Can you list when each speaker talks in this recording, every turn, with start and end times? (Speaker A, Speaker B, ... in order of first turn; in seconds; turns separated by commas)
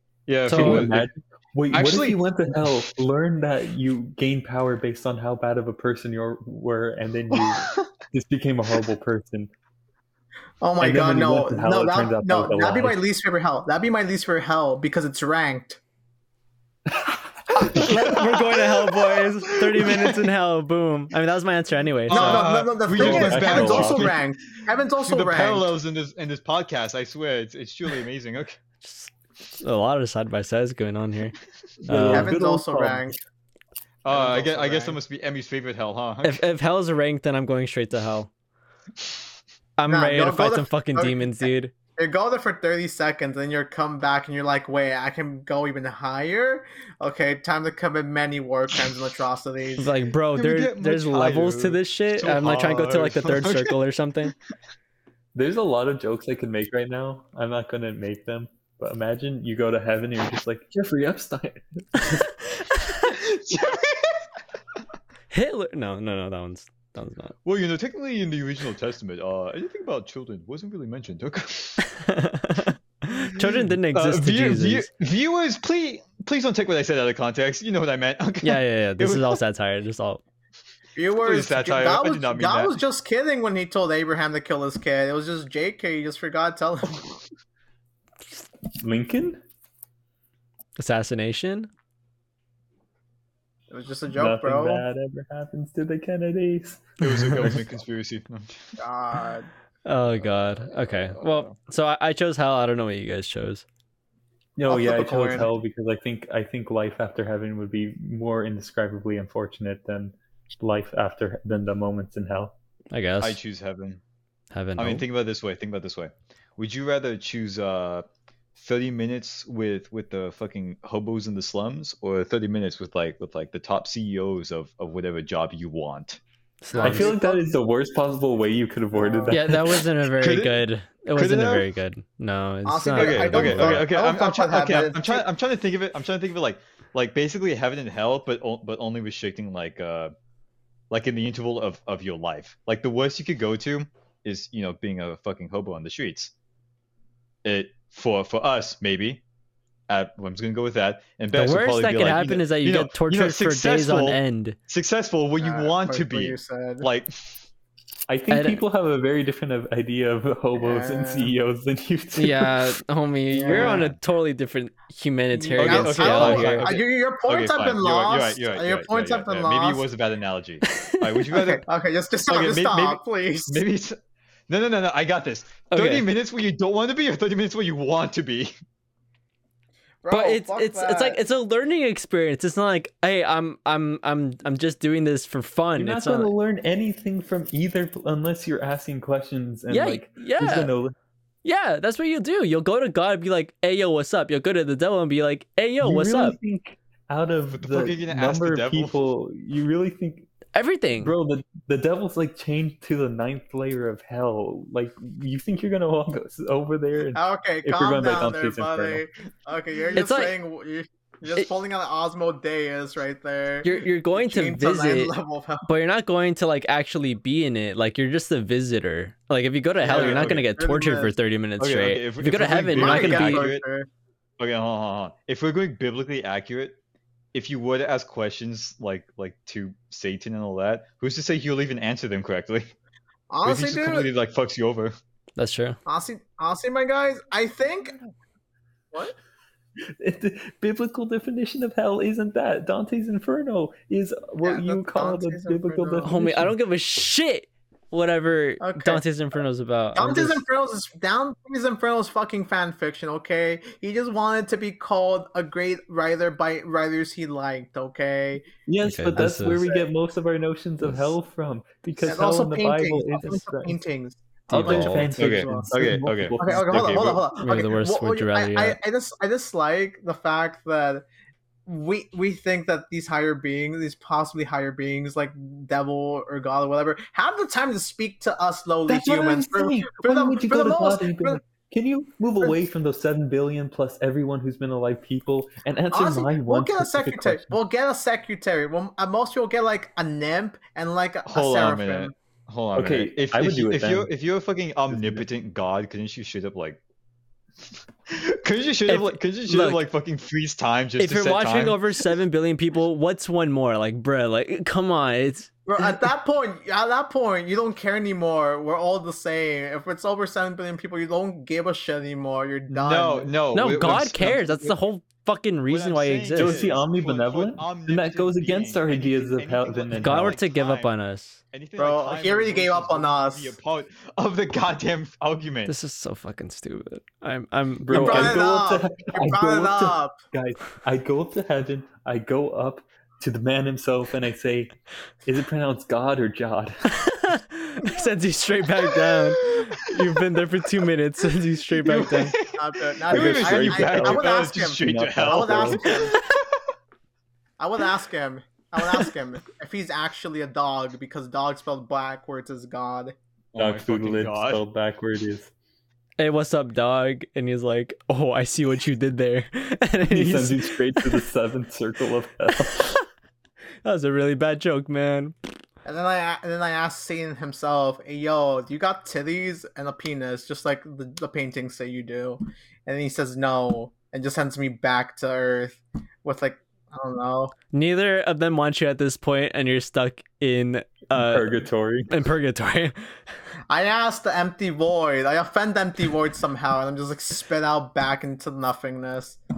Speaker A: 0.3-1.1, Speaker B: 0.5-0.9, Speaker C: 0.5-9.5, Speaker A: 1.7-2.9, Speaker D: 10.6-15.8, Speaker C: 10.8-13.0, Speaker C: 16.9-17.8, Speaker B: 17.7-22.5, Speaker A: 17.7-18.6, Speaker D: 22.1-25.7, Speaker A: 22.1-24.3, Speaker C: 22.9-24.1, Speaker A: 25.0-28.6, Speaker B: 28.8-32.3, Speaker C: 31.9-33.2, Speaker D: 32.1-33.2, Speaker A: 34.0-36.4, Speaker D: 34.1-35.0, Speaker B: 36.2-38.3, Speaker B: 39.8-41.7, Speaker D: 39.9-49.9, Speaker B: 49.8-54.3, Speaker A: 50.4-53.8, Speaker C: 55.4-62.3, Speaker A: 63.0-64.2, Speaker B: 65.3-67.3, Speaker A: 67.4-71.8, Speaker B: 71.9-74.9, Speaker A: 73.4-79.4, Speaker B: 78.4-80.2, Speaker D: 81.0-87.2, Speaker A: 81.2-82.8, Speaker C: 88.8-89.4, Speaker B: 90.8-91.7, Speaker D: 93.7-94.8, Speaker C: 94.1-97.7, Speaker A: 97.0-98.8, Speaker D: 98.8-99.5, Speaker B: 99.8-103.6, Speaker A: 100.3-101.5, Speaker C: 104.6-112.5, Speaker D: 104.7-105.5, Speaker B: 112.9-113.4, Speaker A: 113.2-114.0, Speaker B: 114.5-115.0, Speaker A: 114.8-126.2, Speaker B: 126.6-127.1, Speaker D: 126.7-127.4, Speaker C: 126.8-129.8, Speaker D: 128.9-129.4, Speaker B: 129.3-133.9, Speaker A: 130.2-130.6, Speaker A: 131.2-131.7, Speaker D: 132.7-135.2, Speaker A: 132.9-140.1, Speaker A: 140.9-146.3, Speaker A: 147.4-149.2, Speaker A: 149.9-157.3, Speaker B: 151.3-154.6, Speaker D: 155.4-156.9, Speaker C: 158.1-162.6, Speaker B: 158.3-158.6, Speaker D: 160.6-161.3, Speaker B: 162.2-166.8, Speaker D: 163.3-163.9, Speaker D: 165.3-169.8, Speaker A: 165.6-171.6, Speaker B: 170.7-171.2, Speaker D: 171.3-173.6, Speaker A: 172.3-174.0, Speaker A: 174.5-178.5, Speaker B: 175.7-176.1, Speaker D: 180.0-181.2, Speaker B: 180.1-186.3, Speaker C: 185.8-190.9, Speaker B: 189.7-190.7, Speaker B: 191.4-196.4, Speaker C: 195.8-200.3, Speaker A: 197.5-199.0, Speaker B: 200.5-201.1, Speaker C: 201.0-209.0, Speaker D: 207.2-215.7, Speaker B: 209.9-210.4, Speaker B: 213.6-215.1, Speaker B: 215.7-223.5, Speaker A: 219.8-220.5, Speaker D: 219.9-221.2, Speaker A: 221.6-223.6, Speaker D: 222.8-223.9, Speaker A: 224.4-226.8, Speaker A: 227.3-232.7, Speaker D: 233.3-234.1, Speaker A: 233.4-234.9, Speaker B: 235.4-235.8, Speaker D: 235.9-238.0, Speaker C: 239.8-246.6, Speaker D: 244.4-246.1, Speaker B: 246.0-250.4, Speaker D: 248.6-249.0, Speaker D: 249.9-258.5, Speaker C: 258.7-263.8, Speaker B: 258.8-259.7, Speaker D: 262.0-271.1, Speaker B: 264.5-265.1, Speaker C: 264.5-267.2, Speaker A: 264.7-267.2, Speaker B: 267.4-268.8, Speaker D: 271.7-281.4, Speaker C: 278.9-287.6, Speaker D: 285.9-292.1, Speaker A: 291.3-296.8, Speaker C: 292.8-294.1, Speaker C: 294.9-295.3, Speaker A: 298.1-301.8, Speaker B: 298.9-299.8, Speaker B: 301.0-306.0, Speaker D: 305.7-313.3, Speaker A: 312.7-314.8, Speaker B: 313.5-316.6, Speaker A: 315.7-320.9, Speaker C: 316.4-320.4, Speaker B: 320.0-321.4, Speaker A: 321.5-325.7, Speaker D: 321.8-323.6, Speaker B: 325.7-328.4, Speaker C: 327.8-337.0, Speaker D: 327.9-330.2, Speaker B: 336.9-342.4, Speaker A: 339.1-339.8, Speaker A: 341.8-346.2, Speaker D: 342.6-346.2, Speaker C: 343.1-346.1, Speaker D: 347.6-353.1, Speaker A: 353.5-354.6, Speaker C: 353.6-355.5, Speaker B: 356.2-361.2, Speaker C: 360.1-362.9, Speaker B: 362.7-363.0, Speaker B: 363.8-365.3, Speaker D: 365.9-377.5, Speaker B: 377.7-383.0, Speaker C: 381.1-382.1, Speaker D: 383.7-389.4